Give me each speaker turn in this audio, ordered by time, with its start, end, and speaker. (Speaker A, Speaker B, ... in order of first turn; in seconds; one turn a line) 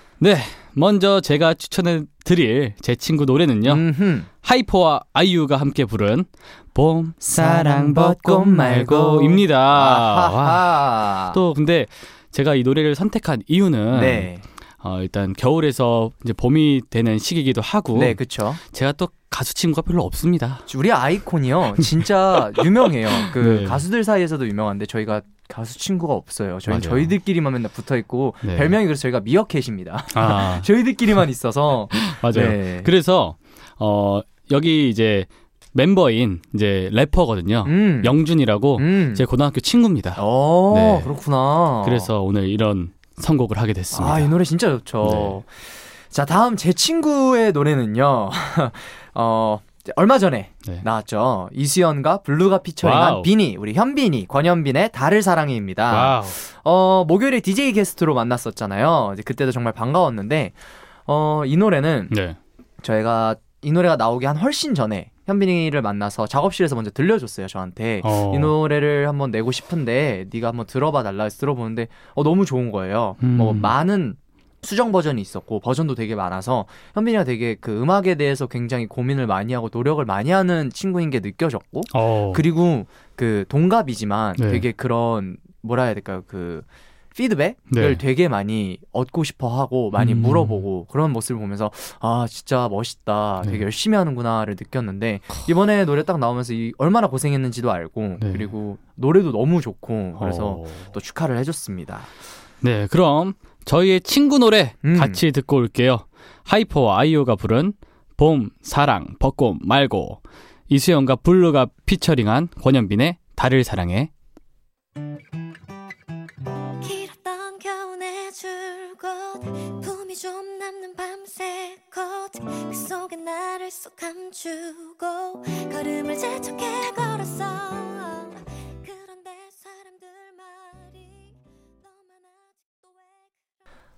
Speaker A: 0.2-3.9
Speaker B: 3.6-4.3
Speaker A: 4.4-14.3
Speaker B: 7.2-11.4
Speaker B: 13.9-14.4
Speaker A: 14.8-20.6
Speaker B: 17.9-18.6
Speaker B: 20.7-32.9
Speaker A: 23.2-23.8
Speaker A: 26.7-27.1
Speaker A: 28.4-28.8
Speaker A: 30.1-30.7
Speaker A: 31.9-41.1
Speaker B: 37.6-38.1
Speaker B: 38.8-39.2
Speaker B: 40.1-42.1
Speaker A: 41.8-44.3
Speaker B: 43.9-62.1
Speaker A: 45.0-45.4
Speaker A: 52.8-53.3
Speaker A: 55.9-56.4
Speaker A: 62.1-62.4
Speaker B: 62.8-102.1
Speaker A: 68.0-68.5
Speaker A: 73.2-73.7
Speaker A: 81.9-82.4
Speaker A: 84.4-84.7
Speaker A: 87.7-88.0
Speaker A: 90.0-90.6
Speaker A: 98.2-98.5
Speaker A: 100.2-100.9
Speaker A: 102.6-114.1
Speaker B: 104.8-105.2
Speaker C: 116.8-133.3